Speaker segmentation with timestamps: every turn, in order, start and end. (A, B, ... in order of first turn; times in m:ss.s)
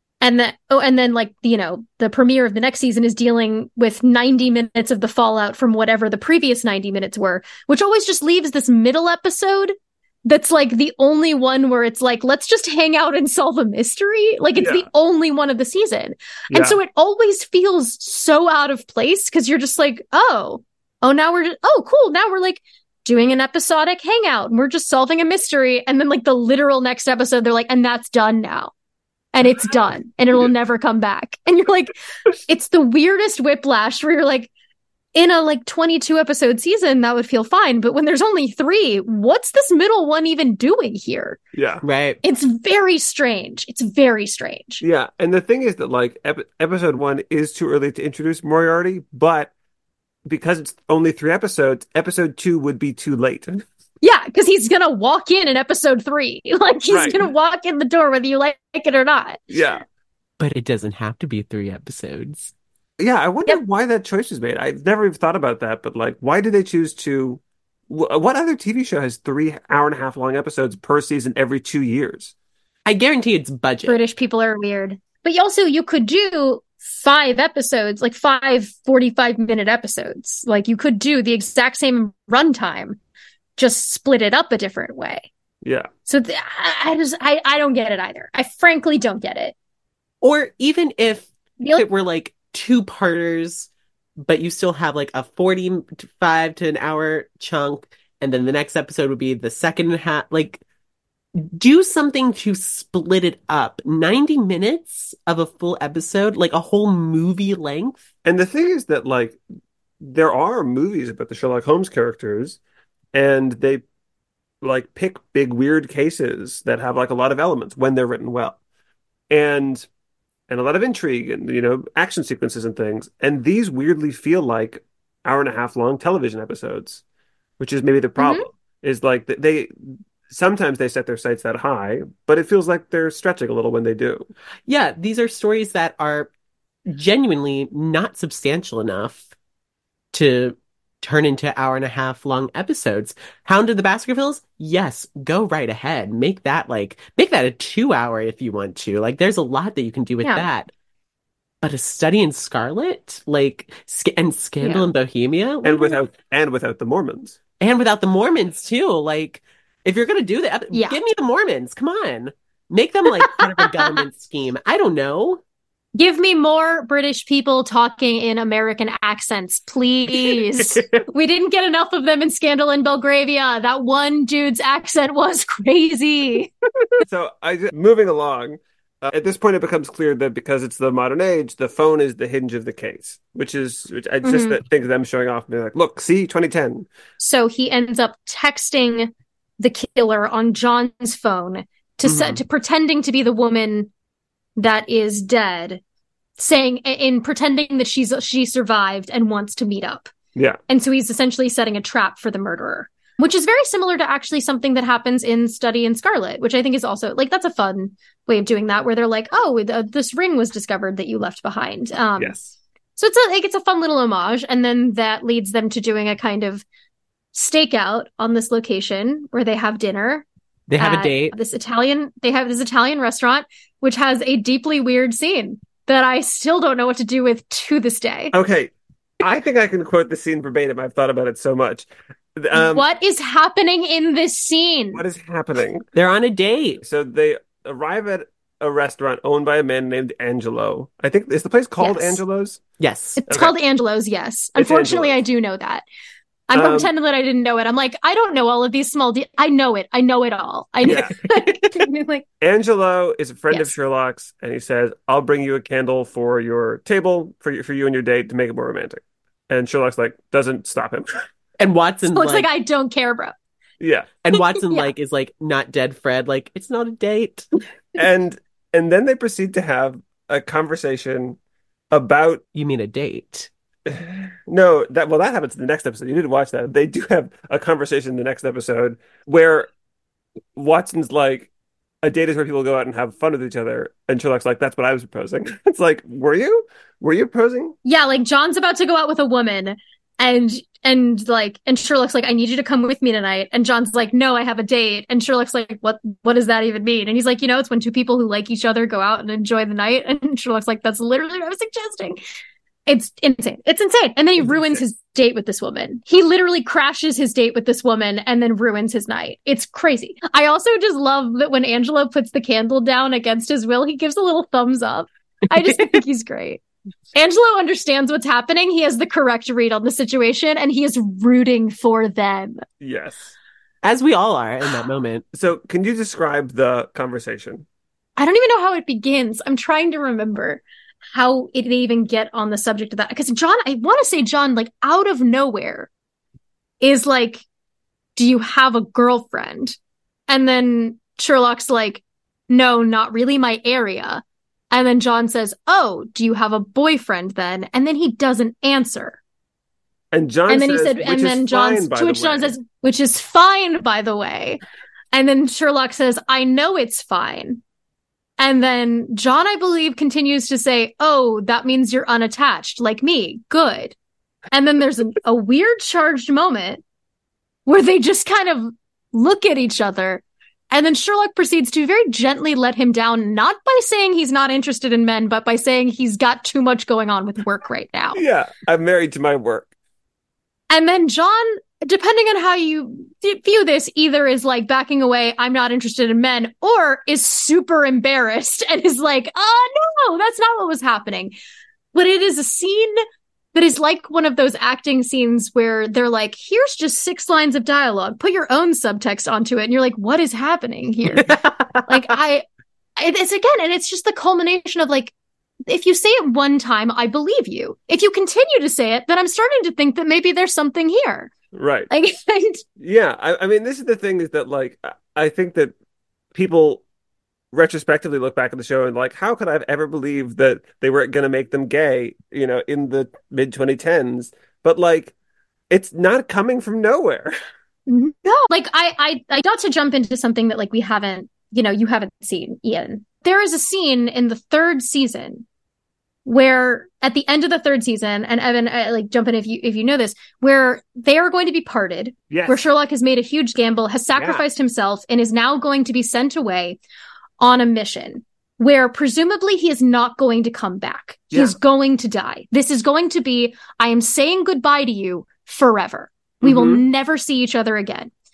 0:00.2-0:28.7 A
0:14.6-0:14.9 B
0:16.5-0:16.8 B
0:29.3-0:31.9 A
0:32.5-0:34.5 A
0:35.1-0:41.4 A
0:41.5-0:41.8 B
0:41.8-0:42.2 C
0:42.2-0:44.8 A
0:44.8-0:49.5 B
0:50.2-0:53.6 B
0:54.0-0:59.4 A
0:56.9-0:57.2 B
0:59.5-0:59.8 B
1:00.4-1:02.5 C
1:03.0-1:12.3 B
1:12.9-1:14.0 C
1:13.9-1:23.0 A
1:23.6-1:25.3 A
1:25.6-1:25.9 B
1:26.0-1:29.5 A
1:30.2-1:33.7 C
1:34.2-1:40.6 C
1:41.3-1:48.0 C
1:48.2-1:49.4 B
1:50.0-1:52.6 B
1:53.1-1:53.8 B
1:54.6-1:58.6 B
1:59.3-1:59.9 B
2:00.5-2:07.0 B
2:07.6-2:14.3 B
2:08.2-2:08.4 A
2:14.7-2:16.3 C
2:16.9-2:19.2 C
2:20.1-2:30.7 C
2:30.2-2:30.5 A
2:31.6-2:36.0 C
2:34.6-2:34.9 A
2:35.6-2:37.4 B
2:37.6-2:45.4 C
2:40.7-2:41.0 A
2:43.3-2:44.0 A
2:46.0-2:56.5 A
2:50.2-2:51.0 C
2:57.0-3:06.9 B
3:04.2-3:04.6 A
3:07.2-3:13.9 A
3:12.0-3:12.4 B
3:14.6-3:15.8 A
3:16.4-3:20.1 A
3:20.7-3:32.4 A
3:32.2-3:32.5 B
3:33.0-3:36.6 A
3:37.3-3:40.2 A
3:40.7-3:41.3 C
3:40.8-3:48.3 A
3:48.3-3:52.8 B
3:52.5-3:55.0 A
3:54.9-3:55.9 B
3:55.9-3:56.8 C
3:56.8-4:02.6 B
4:01.8-4:02.2 A
4:02.8-4:03.2 C
4:03.2-4:05.8 A
4:03.3-4:03.5 B
4:04.6-4:05.2 B
4:06.5-4:12.2 A
4:06.5-4:06.9 B
4:10.8-4:11.1 B
4:10.9-4:11.7 C
4:12.4-4:21.1 B
4:21.6-4:22.5 C
4:22.1-4:23.3 A
4:23.8-4:24.1 B
4:24.2-4:27.5 C
4:24.3-4:24.9 A
4:28.0-4:31.4 B
4:31.9-4:32.4 B
4:32.5-4:33.5 C
4:33.9-4:39.7 B
4:40.5-4:41.5 B
4:42.0-4:47.8 B
4:47.8-5:02.2 A
5:02.9-5:16.6 A
5:04.4-5:04.8 B
5:17.1-5:22.6 A
5:22.8-5:23.3 B
5:23.8-5:25.2 C
5:25.3-5:27.6 B
5:28.2-5:35.9 A
5:36.8-5:37.4 A
5:38.2-5:39.8 A
5:40.3-5:49.2 A
5:50.1-5:52.5 B
5:50.5-5:54.6 A
5:55.1-5:57.6 A
5:58.4-6:03.9 A
6:04.5-6:06.8 A
6:07.6-6:18.2 A
6:18.1-6:19.7 B
6:20.7-6:31.3 A
6:31.9-6:33.0 A
6:33.5-6:42.4 A
6:41.2-6:41.8 C
6:43.0-6:45.1 A
6:45.7-6:51.3 A
6:51.5-6:51.9 B
6:51.9-6:52.6 A
6:52.8-6:55.7 B
6:56.3-6:56.8 B
6:57.5-7:05.1 B
7:05.7-7:07.3 B
7:07.9-7:15.4 A
7:16.2-7:26.8 A
7:22.3-7:22.6 B
7:24.1-7:24.4 B
7:27.4-7:38.1 A
7:31.3-7:31.6 B
7:36.4-7:36.8 B